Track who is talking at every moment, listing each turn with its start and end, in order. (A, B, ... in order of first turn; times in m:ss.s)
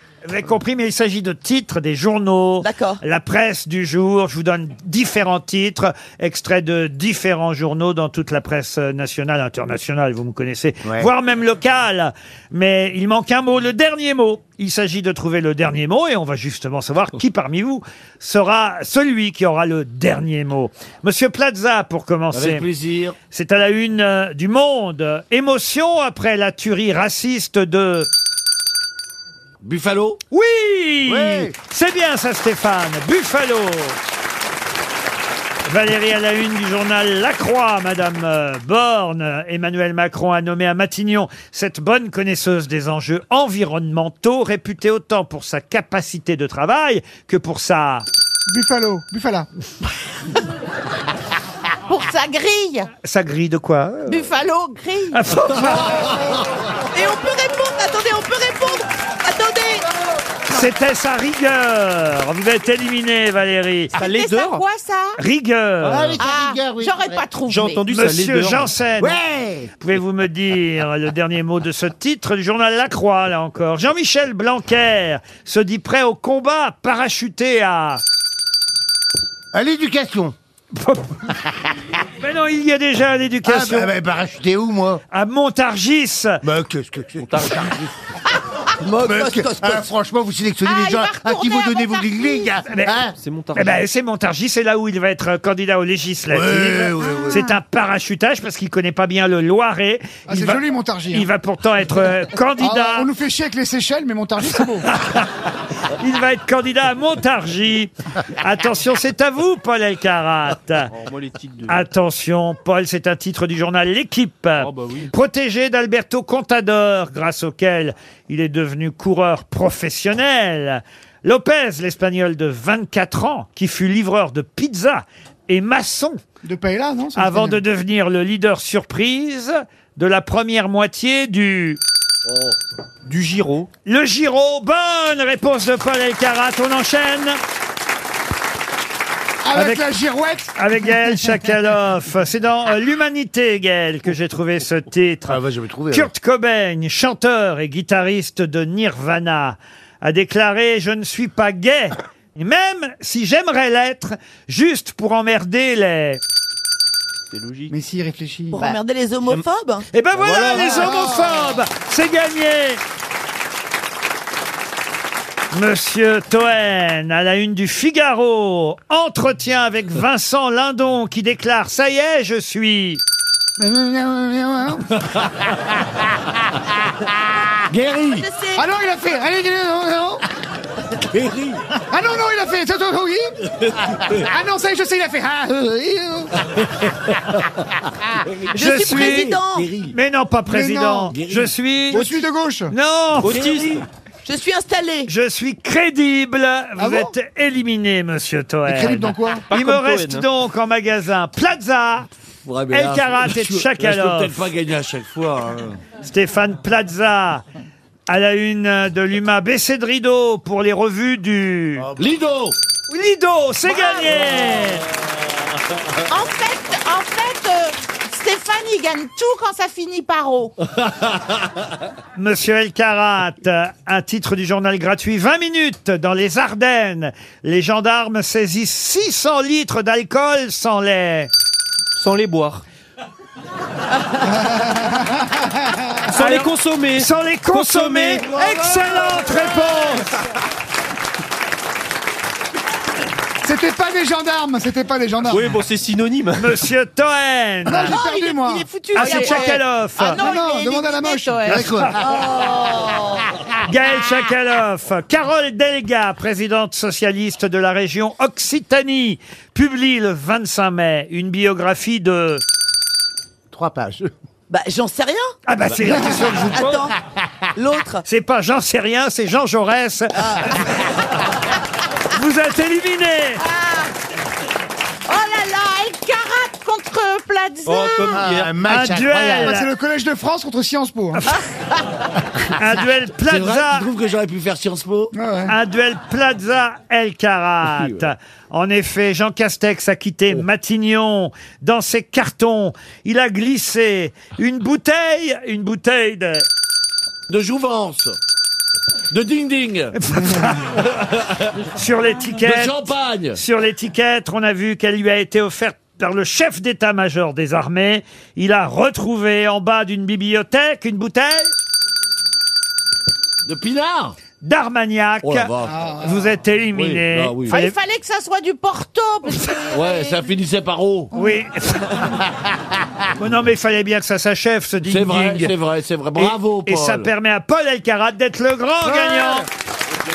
0:00.2-0:22.7 A
0:02.6-0:03.0 B
0:10.8-0:11.1 C
0:22.3-0:23.2 D
0:23.3-0:28.1 A
0:29.6-0:30.2 D
0:30.3-0:34.0 A
0:31.1-0:31.6 C
0:35.6-0:48.0 A
0:48.5-0:49.5 E
0:51.9-0:52.9 F
0:53.0-0:54.3 A
0:54.1-0:55.2 F
0:55.1-0:56.1 A
0:57.0-0:59.8 B
0:57.0-0:58.8 F
0:59.4-0:59.8 F
1:00.5-1:04.0 A
1:04.0-1:04.6 G
1:04.0-1:05.2 F
1:05.2-1:06.2 A
1:05.8-1:07.3 C
1:06.2-1:07.8 F
1:07.4-1:08.7 G
1:07.9-1:09.2 A
1:09.0-1:09.7 C
1:09.8-1:18.0 A
1:19.5-1:20.3 C
1:20.7-1:21.3 A
1:21.4-1:21.7 C
1:22.2-1:23.9 A
1:23.4-1:25.0 C
1:25.1-1:26.4 A
1:26.4-1:27.8 C
1:27.2-1:27.9 G
1:27.4-1:27.7 D
1:28.8-1:29.9 B
1:29.0-1:33.1 C
1:30.6-1:32.6 F
1:32.7-1:33.0 A
1:33.2-1:33.8 G
1:33.5-1:43.1 A
1:36.3-1:37.4 C
1:40.3-1:41.3 E
1:42.6-1:44.9 E
1:44.8-1:50.9 A
1:50.9-1:51.8 G
1:51.7-2:06.2 A
1:54.6-1:55.1 G
2:06.4-2:07.6 E
2:07.1-2:11.8 A
2:12.2-2:12.5 D
2:13.0-2:13.7 G
2:13.8-2:17.4 A
2:19.4-2:21.3 E
2:19.5-2:19.9 A
2:20.6-2:36.2 A
2:25.2-2:26.1 C
2:37.3-2:37.7 G
2:37.7-2:38.7 E
2:38.5-2:39.9 B
2:39.9-2:42.8 A
2:40.2-2:40.9 G
2:40.5-2:41.6 E
2:45.5-2:53.0 A
2:53.6-2:54.9 E
2:55.0-2:55.4 D
2:57.7-2:58.3 D
2:58.1-2:58.6 B
2:58.6-3:00.2 E
3:01.0-3:01.8 D
3:01.8-3:03.3 E
3:03.5-3:04.3 D
3:04.1-3:06.3 E
3:06.4-3:10.0 D
3:08.5-3:09.7 B
3:08.5-3:09.4 A
3:09.9-3:12.1 A
3:10.5-3:11.2 E
3:11.1-3:11.5 D
3:11.9-3:12.7 E
3:12.7-3:13.4 A
3:13.2-3:13.8 G
3:13.2-3:13.8 D
3:14.2-3:15.1 B
3:15.1-3:22.1 A
3:16.8-3:17.1 E
3:18.6-3:19.4 E
3:19.5-3:20.3 G
3:22.4-3:25.8 D
3:22.7-3:24.4 A
3:26.0-3:27.4 A
3:28.1-3:31.9 A
3:32.0-3:32.6 D
3:32.9-3:34.9 A
3:33.6-3:34.1 F
3:34.1-3:34.8 D
3:36.1-3:40.5 F
3:40.8-3:41.4 D
3:42.2-3:51.3 A
3:52.0-3:52.6 G
3:54.2-3:55.9 E
3:56.1-3:59.2 G
3:56.1-4:00.1 A
4:03.4-4:05.5 E
4:05.2-4:06.6 G
4:06.3-4:08.0 A
4:07.6-4:09.3 E
4:07.9-4:10.7 B
4:08.9-4:10.2 A
4:09.2-4:11.6 F
4:10.1-4:11.9 E
4:11.4-4:12.3 C
4:12.0-4:13.2 B
4:13.6-4:22.4 A
4:23.5-4:24.1 C
4:24.5-4:25.3 B
4:25.5-4:26.7 A
4:25.7-4:26.6 D
4:26.0-4:26.9 B
4:27.5-4:28.0 B
4:28.0-4:31.2 A
4:32.1-4:33.4 A
4:35.1-4:38.2 F
4:37.6-4:38.5 G
4:38.1-4:39.6 C
4:38.6-4:39.7 A
4:39.4-4:41.2 E
4:41.1-4:41.4 A
4:42.4-4:43.9 A
4:43.2-4:45.1 D
4:45.1-4:45.5 E
4:45.4-4:56.5 A
4:47.6-4:48.1 D
4:57.3-4:58.2 D
4:59.1-4:59.9 D
5:00.0-5:00.8 A
5:00.7-5:01.6 D
5:01.6-5:11.5 A
5:02.4-5:03.4 D
5:13.4-5:14.2 D
5:14.4-5:17.8 A
5:15.2-5:15.8 D
5:15.6-5:16.3 E
5:16.7-5:17.6 D
5:17.5-5:20.2 F
5:19.7-5:21.1 D
5:21.1-5:22.2 A
5:23.2-5:25.5 A
5:24.8-5:27.1 D
5:26.1-5:29.5 A